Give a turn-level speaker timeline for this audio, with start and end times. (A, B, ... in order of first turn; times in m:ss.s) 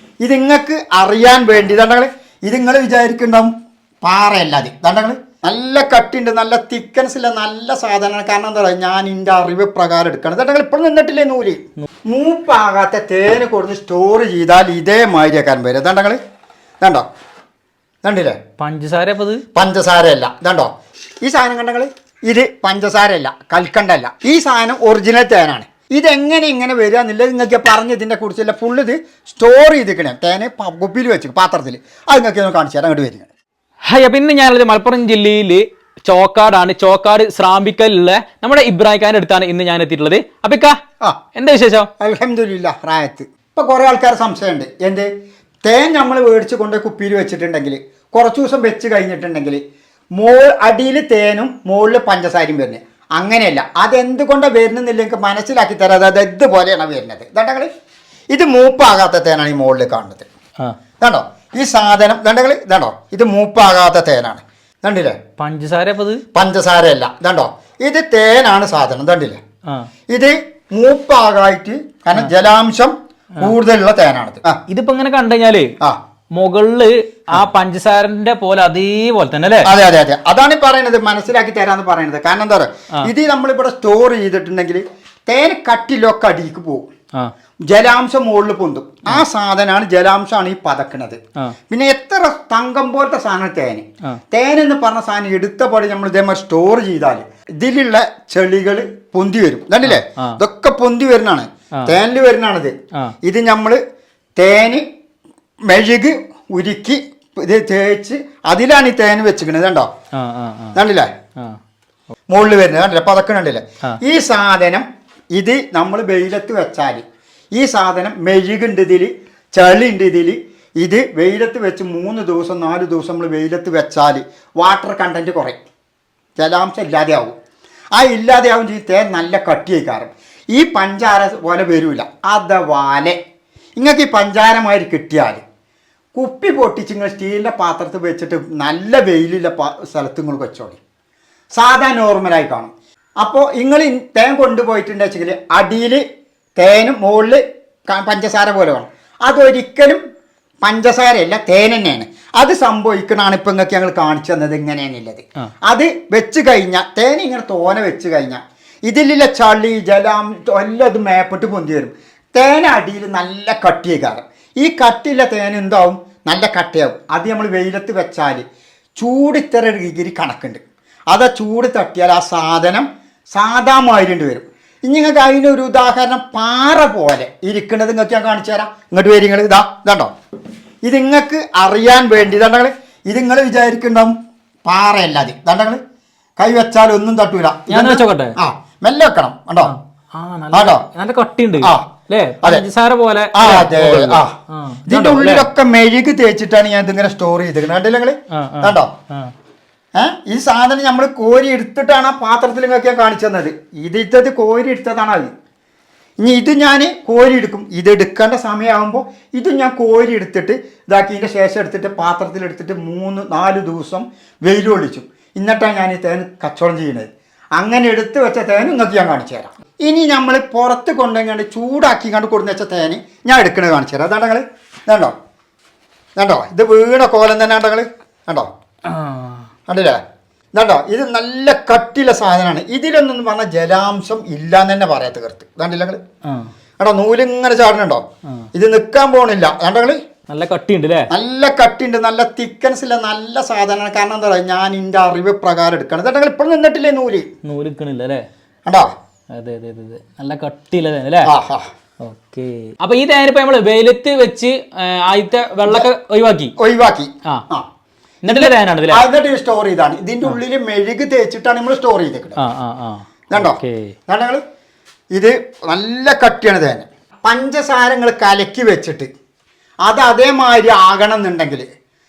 0:00.2-0:03.5 A
0:04.0-0:16.2 A
0:18.0-0:18.4 A
0:18.6-0:19.4 B
0:19.6-0:20.7 A
0:21.2-0:33.3 A
0:33.9-0:40.8 B
0:41.4-0:41.9 B
0:42.0-0:45.1 A
0:45.6-0:49.6 A
0:50.2-0:57.7 A
0:58.3-1:00.3 A
1:01.0-1:05.2 A
1:05.4-1:06.2 B
1:06.3-1:09.4 A
1:10.1-1:14.6 A
1:14.7-1:15.8 B
1:16.3-1:19.7 B
1:19.6-1:26.9 A
1:27.7-1:42.7 A
1:39.8-1:40.4 B
1:43.2-1:43.8 A
1:44.4-1:44.8 A
1:45.7-1:49.9 A
1:50.1-1:50.8 B
1:50.8-1:51.1 A
1:52.3-1:57.0 A
1:57.6-2:05.6 A
2:06.4-2:07.4 A
2:08.0-2:13.2 A
2:13.8-2:15.4 A
2:16.2-2:20.8 A
2:21.5-2:26.0 A
2:26.6-2:30.0 A
2:30.6-2:48.4 A
2:49.0-3:00.1 A
3:00.8-3:04.1 A
3:04.6-3:05.8 A
3:06.4-3:09.7 A
3:07.7-3:08.4 B
3:09.6-3:15.5 B
3:10.5-3:10.9 A
3:11.6-3:11.9 A
3:13.3-3:14.3 A
3:14.9-3:18.9 A
3:18.3-3:19.3 B
3:20.0-3:25.3 A
3:26.2-3:45.1 A
3:46.2-3:48.5 A
3:48.8-3:49.5 B
3:49.7-3:50.0 A
3:50.6-3:56.0 A
3:56.2-3:56.5 B
3:56.8-4:00.0 A
4:00.3-4:01.1 B
4:01.1-4:07.3 A
4:07.4-4:08.3 B
4:08.7-4:08.9 A
4:09.3-4:11.3 B
4:11.3-4:11.7 A
4:12.0-4:16.5 B
4:16.6-4:17.7 A
4:18.2-4:19.0 B
4:18.3-4:22.4 A
4:22.4-4:23.9 B
4:23.3-4:24.4 A
4:25.1-4:29.1 A
4:29.8-4:31.6 A